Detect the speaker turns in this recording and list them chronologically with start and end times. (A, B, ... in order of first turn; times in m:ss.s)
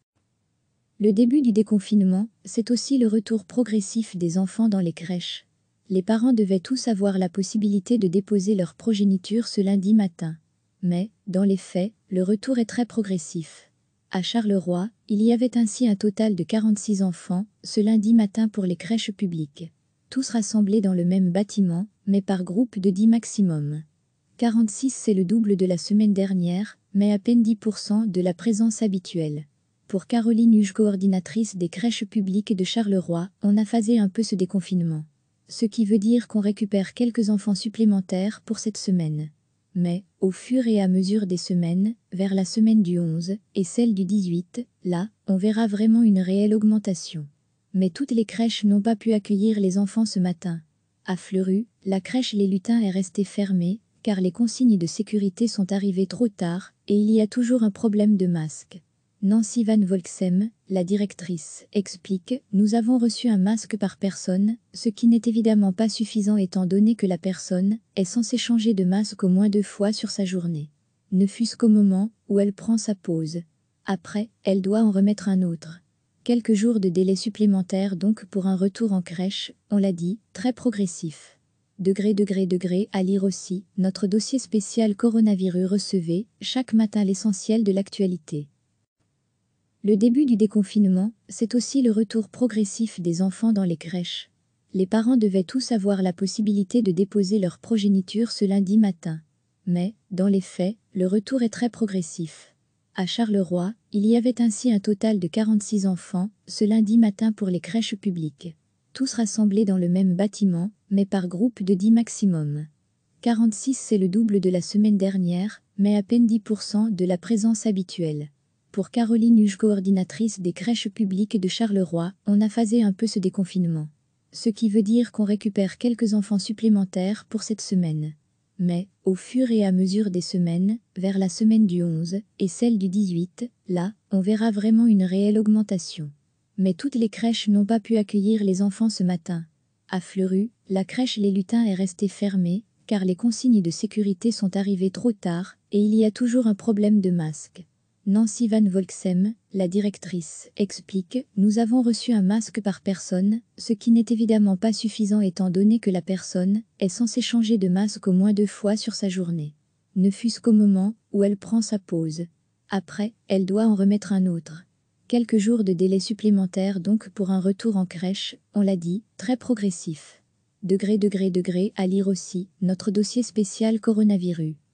0:01.0-0:23.8 A
0:24.4-1:28.5 A
1:29.8-1:52.7 A
1:53.2-2:54.6 A